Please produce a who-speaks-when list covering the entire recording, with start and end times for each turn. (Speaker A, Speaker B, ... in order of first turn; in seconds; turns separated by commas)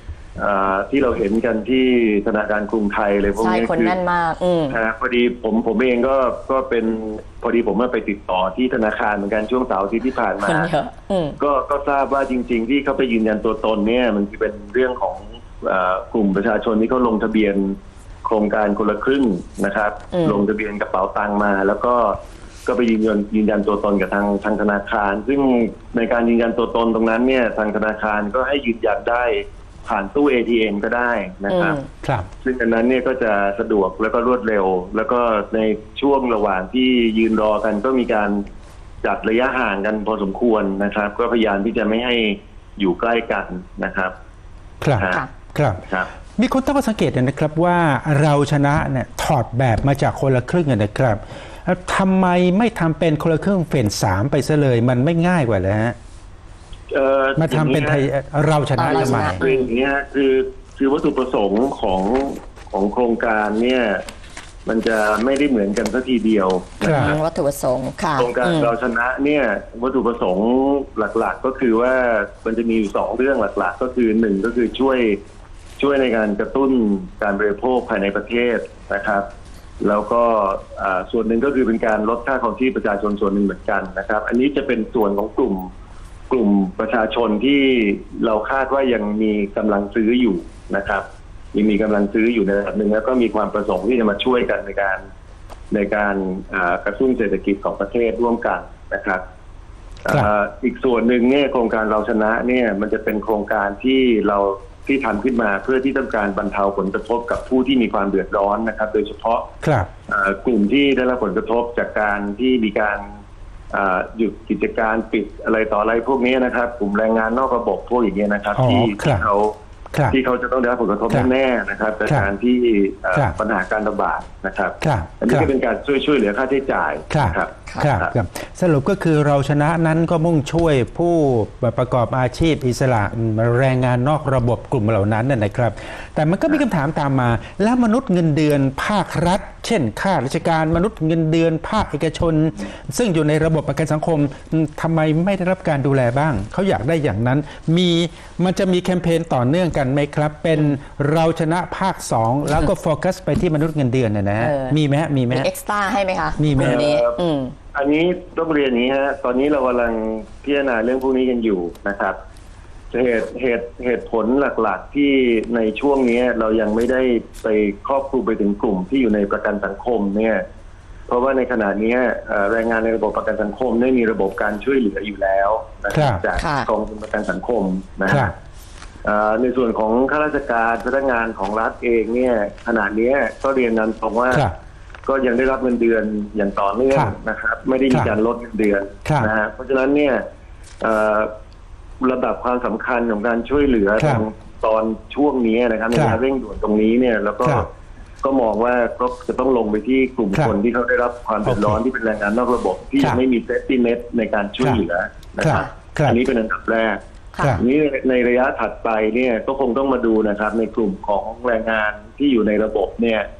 Speaker A: 0.4-4.0, Speaker B: 3.4-4.8, Speaker A: 4.7-10.7, Speaker B: 10.4-11.3, Speaker A: 11.4-31.8, Speaker B: 20.1-20.4, Speaker B: 31.5-31.9, Speaker C: 32.0-32.3, Speaker A: 32.4-38.4, Speaker A: 39.0-44.1, Speaker C: 44.8-45.8, Speaker A: 45.0-45.2, Speaker B: 45.0-45.3, Speaker C: 46.4-56.0, Speaker A: 56.9-58.0, Speaker C: 57.4-59.4, Speaker B: 58.8-59.6, Speaker A: 58.9-64.0, Speaker A: 64.7-67.2, Speaker C: 66.8-67.1, Speaker B: 66.8-68.7, Speaker A: 68.2-75.2, Speaker A: 75.8-79.2, Speaker A: 79.8-85.7, Speaker A: 86.3-95.0, Speaker A: 95.7-99.2, Speaker A: 100.0-109.5, Speaker C: 109.6-109.9, Speaker A: 110.1-113.2, Speaker A: 113.7-119.5, Speaker C: 118.5-119.2, Speaker A: 120.1-128.1, Speaker C: 124.8-125.5, Speaker C: 127.1-155.5, Speaker B: 154.4-154.8, Speaker B: 155.3-157.5, Speaker C: 156.4-156.9, Speaker A: 156.6-157.2, Speaker A: 157.7-162.1, Speaker A: 162.9-170.4, Speaker A: 171.1-178.3, Speaker C: 175.9-176.2, Speaker B: 176.3-176.7, Speaker A: 179.0-184.5, Speaker A: 185.1-190.2, Speaker A: 190.8-191.3, Speaker A: 192.0-197.7, Speaker A: 198.2-207.0, Speaker C: 205.4-206.2, Speaker B: 207.3-207.6, Speaker A: 207.6-213.3